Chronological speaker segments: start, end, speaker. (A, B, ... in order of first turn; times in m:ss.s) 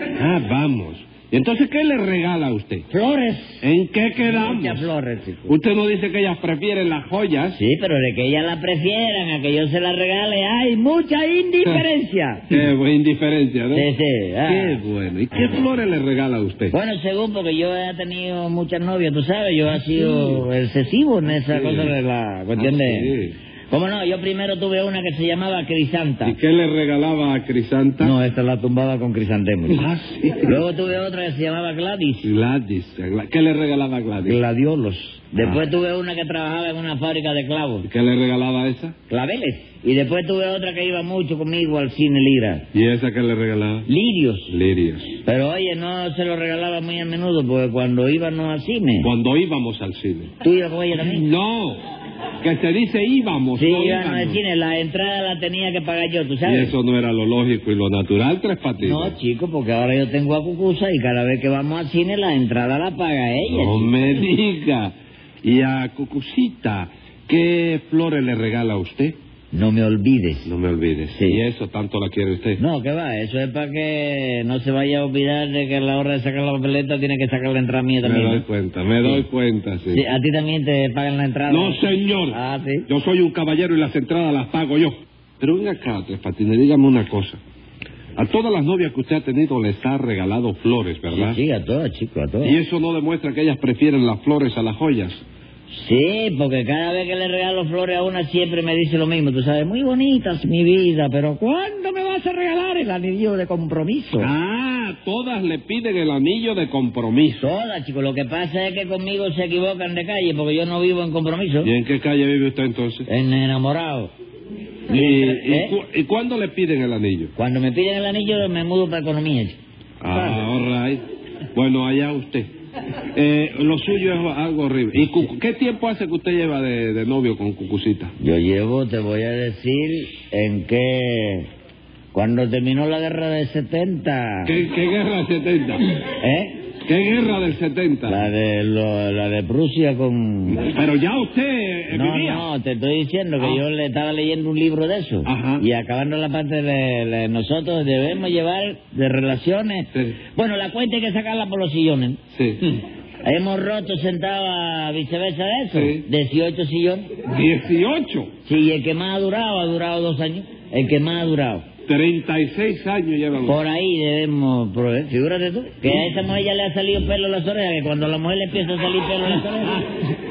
0:00.1-0:02.9 A
0:02.9-0:03.6 B
0:03.6-0:04.9 A
0:04.2-0:05.6 B
0:05.5-0:07.6 A
0:07.5-0:12.5 B
0:12.5-0:13.9 A
0:13.7-0:14.8 B
0:14.4-0:16.7 A
0:16.7-0:23.1 B
0:21.5-0:22.0 A
0:22.6-0:23.3 A
0:23.7-0:26.4 B
0:26.2-0:28.1 A
0:28.0-0:29.8 B
0:29.8-0:30.6 A
0:30.4-0:32.3 B
0:32.2-0:34.4 A
0:34.2-0:37.8 B
0:37.8-0:39.0 A
0:39.1-0:42.6 B
0:42.7-0:43.9 A
0:43.9-0:44.5 B
0:44.5-0:45.1 A
0:45.2-0:49.1 B
0:49.0-0:50.3 A
0:50.4-0:51.2 B
0:51.0-0:51.8 A
0:52.4-0:54.4 A
0:53.6-0:56.8 B
0:56.4-0:59.2 A
0:58.8-1:04.0 B
1:03.5-1:09.2 A
1:09.5-1:10.5 B
1:10.4-1:12.6 A
1:11.1-1:11.4 B
1:12.6-1:18.4 B
1:18.0-1:20.0 A
1:19.9-1:22.8 B
1:21.5-1:27.4 A
1:28.2-1:31.4 A
1:31.1-1:32.6 B
1:32.4-1:35.2 A
1:35.7-1:44.3 B
1:44.2-1:47.5 A
1:47.4-1:51.7 B
1:51.6-1:53.1 A
1:53.1-1:54.1 B
1:54.9-1:55.7 B
1:54.9-1:57.3 A
1:57.4-1:59.6 B
2:00.0-2:01.0 A
2:00.1-2:00.4 B
2:01.5-2:02.5 A
2:03.1-2:08.1 A
2:08.2-2:11.5 B
2:12.1-2:14.5 B
2:14.4-2:15.9 A
2:16.2-2:16.5 B
2:16.8-2:18.3 A
2:18.0-2:20.7 B
2:20.5-2:22.5 A
2:21.9-2:32.2 B
2:25.2-2:25.6 A
2:32.3-2:32.6 A
2:33.2-2:37.1 B
2:35.7-2:36.0 A
2:37.2-2:38.3 A
2:38.4-2:41.6 B
2:41.9-2:43.6 A
2:43.4-2:49.8 B